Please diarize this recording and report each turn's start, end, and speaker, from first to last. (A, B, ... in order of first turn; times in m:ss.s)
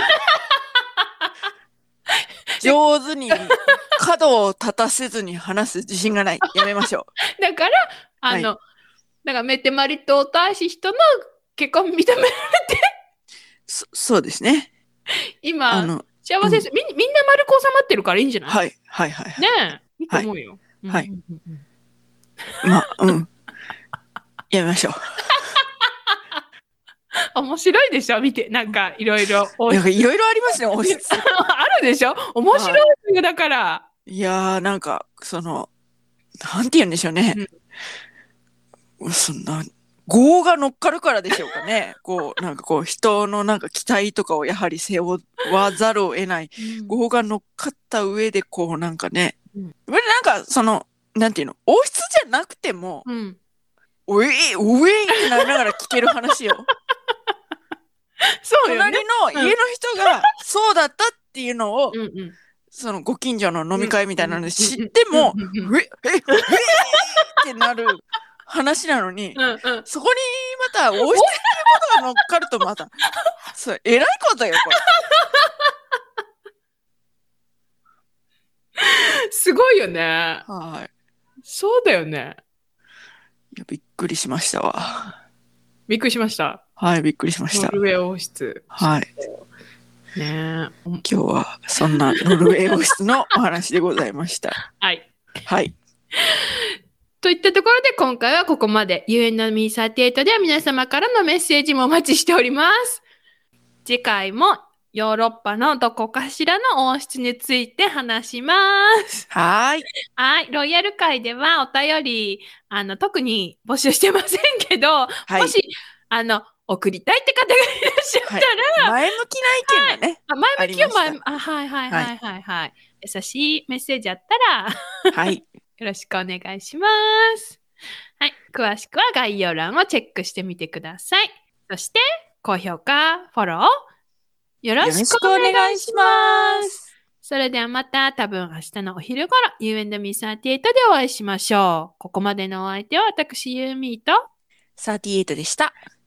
0:00.2-0:01.3 A
0:02.1-0:02.8 A
0:02.6-0:07.1 B
0:03.3-0:03.8 A
0:06.4-0:06.8 A
0:07.4-0:08.6 A
0:09.2-0:11.0 A
0:11.5-0:12.8 A
0:13.7-0:14.7 B
0:15.4-0:18.6 A
0:15.7-0:16.6 B
0:18.5-0:19.5 B
0:19.4-0:21.6 A
0:22.6-0:23.3 B
0:24.5-0:25.0 B
0:27.3-0:30.0 A
0:29.7-0:31.4 B
0:30.8-0:33.8 A
0:32.5-0:32.8 B
0:34.1-0:35.7 B
0:36.4-0:37.4 B
0:39.0-0:49.4 B
0:41.3-0:41.6 A
0:46.6-0:46.9 A
0:49.9-0:53.0 B
0:53.0-0:53.4 A
0:54.1-0:56.7 B
0:55.2-0:55.5 A
0:58.2-0:59.6 A
0:58.6-1:02.0 B
1:00.1-1:00.3 A
1:01.9-1:02.3 A
1:02.7-1:13.0 B
1:03.7-1:05.7 A
1:06.3-1:07.4 A
1:09.4-1:09.8 A
1:11.1-1:11.8 A
1:13.5-1:14.9 B
1:14.7-1:15.6 A
1:18.8-1:20.4 A
1:20.4-1:20.9 B
1:21.4-1:22.4 A
1:23.5-1:25.1 B
1:25.9-1:26.6 A
1:26.8-1:27.8 B
1:27.5-1:29.4 A
1:28.7-1:29.1 B
1:30.1-1:31.0 A
1:31.0-1:34.6 B
1:31.8-1:32.9 A
1:34.7-1:35.1 A
1:35.4-1:35.7 B
1:36.2-1:36.6 A
1:37.2-1:43.0 A
1:43.8-1:49.2 A
1:49.3-1:49.8 B
1:50.2-1:58.9 A
1:55.3-1:55.5 B
1:58.2-2:01.2 B
1:59.6-2:07.6 A
2:05.1-2:05.4 B
2:08.2-2:13.7 A
2:14.6-2:24.2 A
2:14.8-2:16.8 B
2:24.8-2:25.8 B